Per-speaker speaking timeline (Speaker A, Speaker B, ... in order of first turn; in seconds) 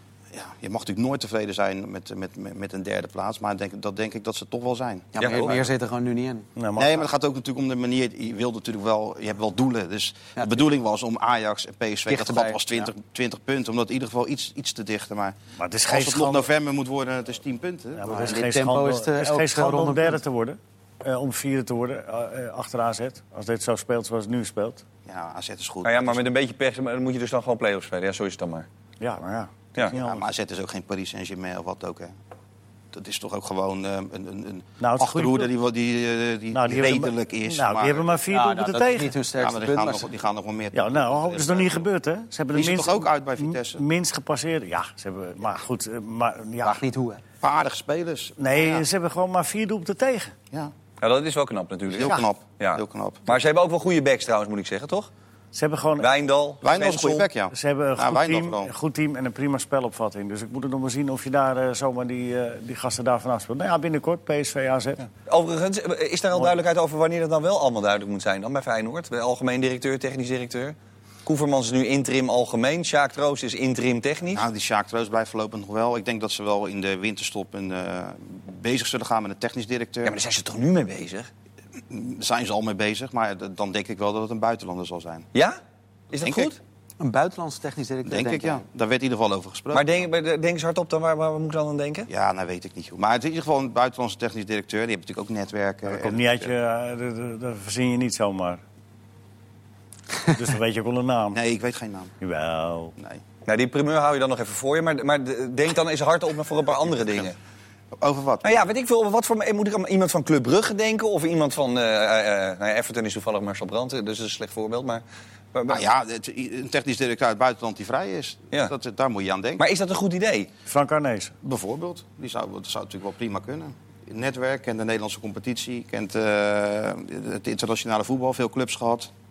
Speaker A: 0.3-5.7, 6.8-15.3, 15.9-18.4, 25.1-26.2, 29.9-32.1, 32.9-38.2, 39.4-41.9, 42.5-43.8, 47.4-48.8, 51.9-53.3, 56.6-58.7, 74.3-80.2, 81.9-85.3, 86.2-86.5, 88.0-90.0, 92.1-96.5, 101.3-102.1, 103.0-103.2, 108.0-108.7, 115.7-119.6, 121.4-129.1
Speaker B: 5.1-6.5, 10.4-10.6, 12.1-12.9, 18.1-20.2, 38.3-40.1, 46.6-47.2, 87.0-88.6
Speaker C: 5.2-5.5, 25.8-28.6, 51.0-55.1, 56.0-57.3, 65.3-74.4, 80.0-81.3, 85.3-85.6, 86.1-86.6, 89.7-92.1, 103.4-107.3, 108.4-115.0, 115.5-115.8, 119.6-120.5
Speaker D: 6.5-7.0, 15.6-16.5, 17.9-24.8, 29.0-30.2, 34.8-35.5, 36.5-39.1, 40.7-46.8, 48.4-50.3, 55.5-56.1, 57.5-65.1, 95.8-98.6, 100.2-101.4, 102.2-102.9, 120.7-121.3